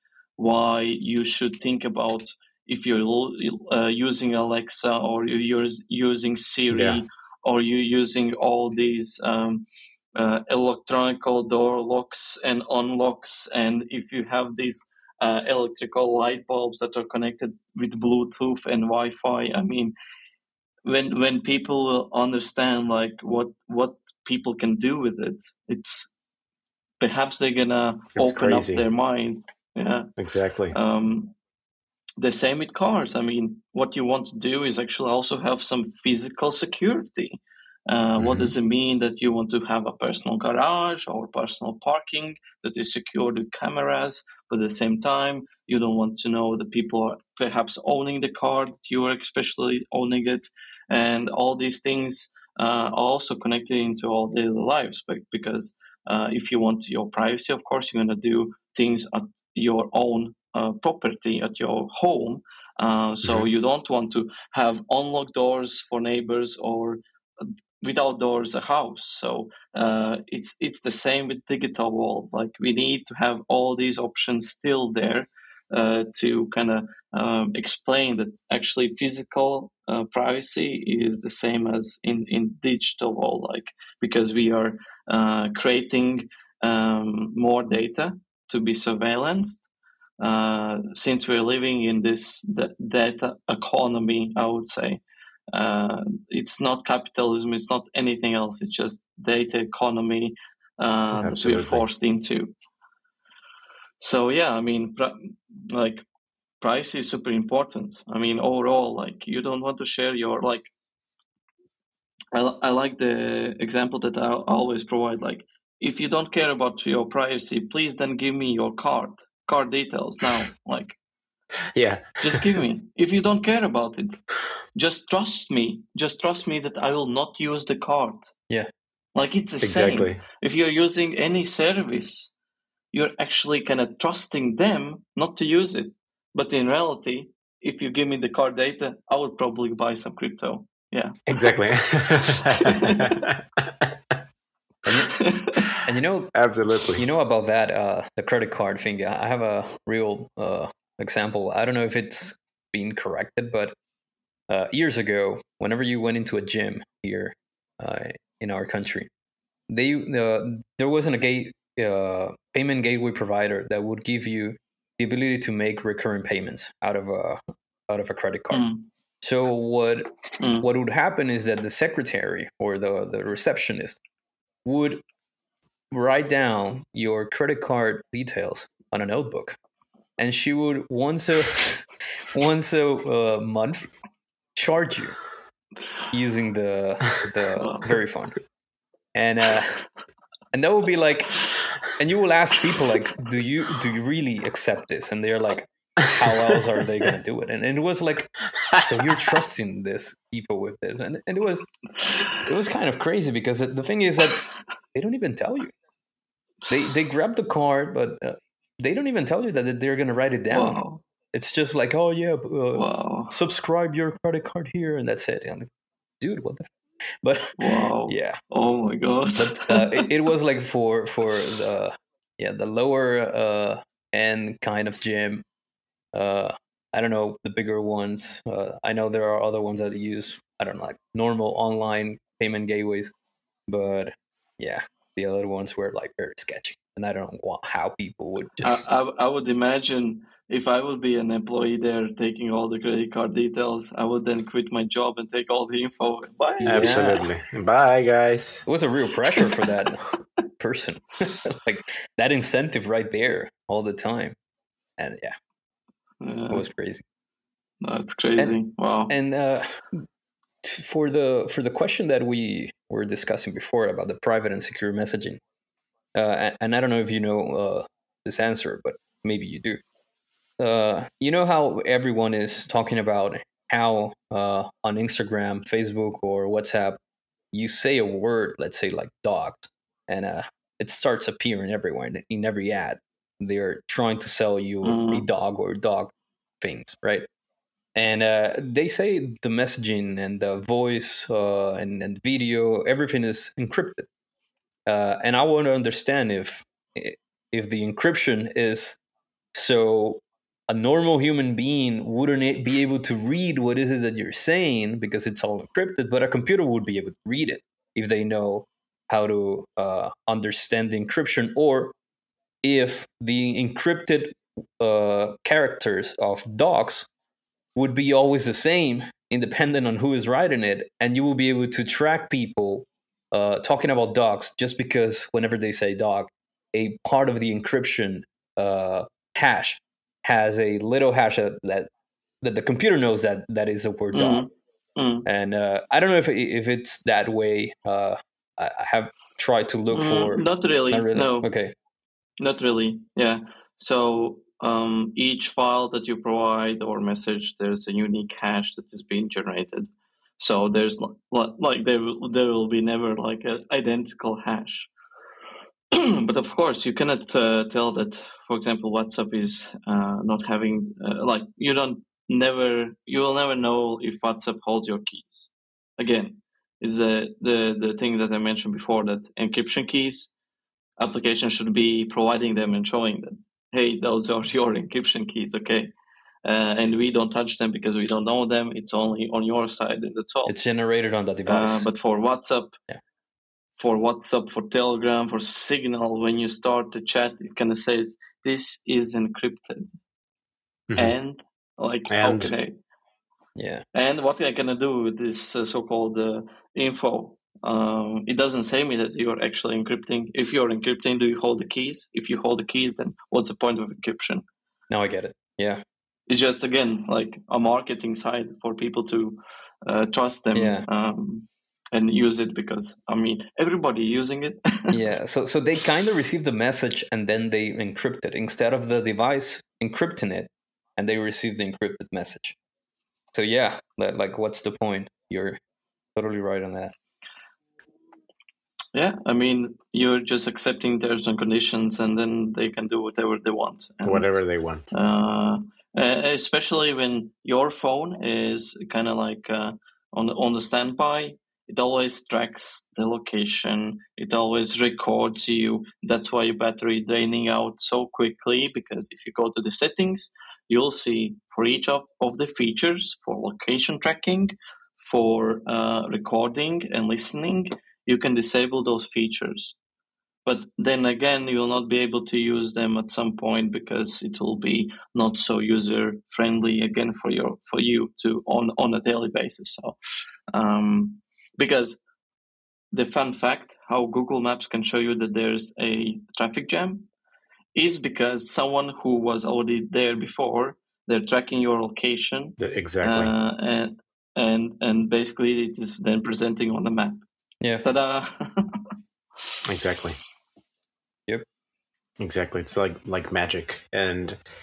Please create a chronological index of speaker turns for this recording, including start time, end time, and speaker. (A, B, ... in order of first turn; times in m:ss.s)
0:00.4-0:19.9 A
0:06.7-0:07.0 B
0:20.8-0:26.1 A
0:27.0-0:30.1 A
0:28.2-0:28.9 B
0:30.2-0:30.8 B
0:30.7-0:31.4 A
0:32.2-1:29.6 A
0:38.2-0:38.5 B
1:30.2-1:42.5 A
1:41.2-1:41.8 B
1:44.0-1:46.1 A
1:46.6-1:50.7 A
1:52.3-2:01.0 A
2:01.7-2:02.6 B
2:02.2-2:04.2 A
2:04.7-2:08.3 A
2:09.2-2:12.3 A
2:09.6-2:10.2 B
2:12.9-2:21.2 A
2:21.3-2:23.9 B
2:22.4-2:23.2 A
2:24.9-2:26.3 C
2:25.2-2:25.6 A
2:26.3-2:27.0 B
2:27.0-2:33.8 C
2:34.5-2:39.1 C
2:39.7-2:48.7 C
2:48.5-2:48.9 A
2:49.2-2:54.0 C
2:50.4-2:50.7 A
2:54.6-2:55.0 C
2:55.9-2:59.6 C
3:00.2-3:03.9 C
3:04.6-3:05.2 C
3:06.1-3:08.4 C
3:07.6-3:07.9 A
3:09.2-3:09.8 C
3:10.5-3:21.7 C
3:22.3-3:25.7 C
3:26.7-3:30.8 C
3:30.5-3:31.0 A
3:31.3-3:35.7 C
3:32.8-3:33.3 A
3:36.2-3:36.7 C
3:37.2-3:38.4 C
3:37.6-3:40.1 A
3:39.4-3:45.4 C
3:46.1-3:53.1 C
3:53.7-3:58.8 C
3:58.6-4:07.2 A
4:06.6-4:07.2 C
4:06.7-4:08.7 B
4:08.7-4:14.4 C
4:15.0-4:15.4 C
4:16.2-4:16.6 A
4:16.5-4:17.0 C
4:17.8-4:19.1 A
4:19.1-4:20.0 C
4:20.6-4:25.4 C
4:26.2-4:29.8 C
4:30.6-4:37.0 C
4:37.5-4:47.3 C
4:44.8-4:45.3 A
4:48.0-4:54.1 C
4:54.9-4:59.0 C
4:59.5-5:11.9 C
5:12.6-5:17.1 C
5:17.8-5:31.9 C
5:32.4-5:34.5 C
5:34.1-5:35.3 A
5:35.3-5:41.8 C
5:39.9-5:41.5 A
5:42.4-5:54.9 A
5:55.9-6:10.3 A
6:11.0-6:15.9 A
6:16.4-6:20.5 A
6:20.5-6:21.9 C
6:21.5-6:22.8 A
6:23.8-6:29.9 A
6:30.9-6:31.2 B
6:31.0-6:32.8 A
6:32.1-6:32.5 B
6:33.6-6:33.8 C
6:33.9-6:44.4 A
6:44.9-6:45.8 C
6:46.3-6:55.0 A
6:50.5-6:50.9 C
6:54.9-7:02.6 C
7:03.3-7:05.6 C
7:06.2-7:07.0 C
7:08.9-7:39.8 A
7:14.0-7:14.9 B
7:40.5-7:50.0 A
7:50.5-7:52.0 A
7:52.9-7:57.1 A
7:57.8-8:07.2 A
8:02.6-8:03.3 B
8:07.8-8:08.9 A
8:09.6-8:10.2 B
8:12.2-8:14.4 B